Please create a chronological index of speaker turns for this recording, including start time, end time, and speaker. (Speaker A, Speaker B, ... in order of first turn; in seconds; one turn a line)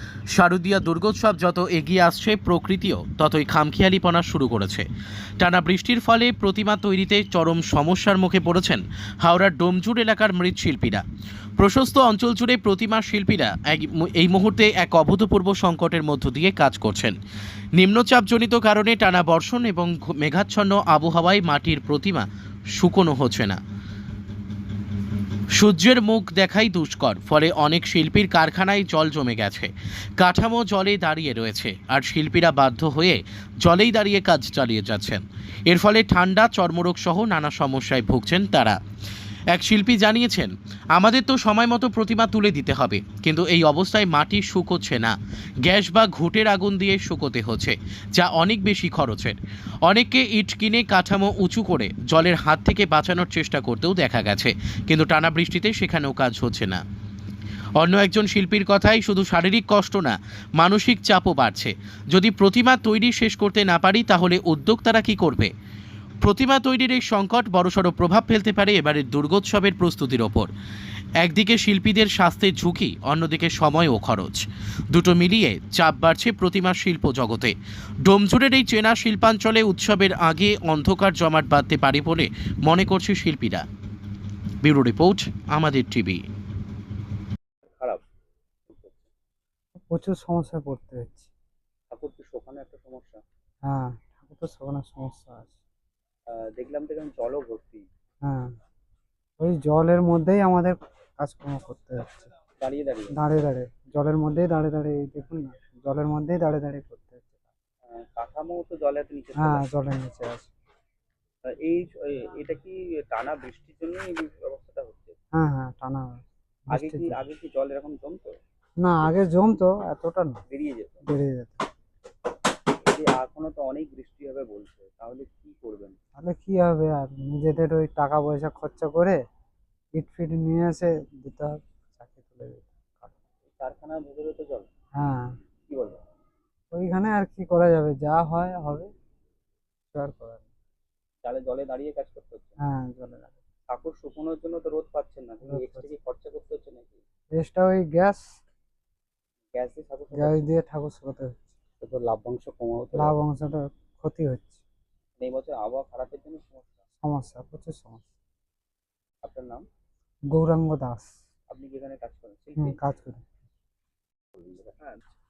Speaker A: 0.3-4.9
Speaker A: 5.4-11.0
Speaker A: 11.6-17.2
Speaker A: 17.8-23.6
Speaker A: 25.6-38.8
Speaker A: 39.5-56.8
Speaker A: 57.8-65.5
Speaker A: 66.2-70.5
Speaker A: 71.2-83.7
Speaker A: 84.6-86.2
Speaker B: 87.8-88.0
Speaker B: 88.7-89.1
Speaker C: 89.8-91.3
Speaker B: 91.9-93.2
Speaker C: 93.7-95.6
Speaker B: 96.3-97.9
Speaker C: 98.2-98.5
Speaker C: 99.4-102.3
Speaker B: 102.6-103.2
Speaker C: 103.1-107.4
Speaker B: 107.9-109.7
Speaker C: 109.4-110.5
Speaker B: 111.5-115.2
Speaker C: 115.3-117.2
Speaker B: 116.7-118.3
Speaker C: 118.8-120.4
Speaker B: 120.5-121.0
Speaker C: 121.1-121.7
Speaker B: 122.9-126.0
Speaker C: 126.2-129.2
Speaker C: 129.9-133.2
Speaker B: 133.6-134.7
Speaker C: 135.0-135.3
Speaker B: 135.7-136.0
Speaker C: 136.7-138.9
Speaker C: 139.9-140.4
Speaker B: 141.2-142.5
Speaker C: 142.6-143.3
Speaker B: 143.7-147.0
Speaker C: 145.5-145.8
Speaker C: 147.3-148.3
Speaker B: 149.5-150.5
Speaker C: 150.1-151.5
Speaker B: 151.8-153.2
Speaker C: 152.9-154.6
Speaker B: 155.2-156.8
Speaker C: 157.0-158.0
Speaker B: 159.2-159.7
Speaker C: 160.3-161.2
Speaker B: 161.5-162.8
Speaker C: 162.6-163.2
Speaker B: 164.6-165.1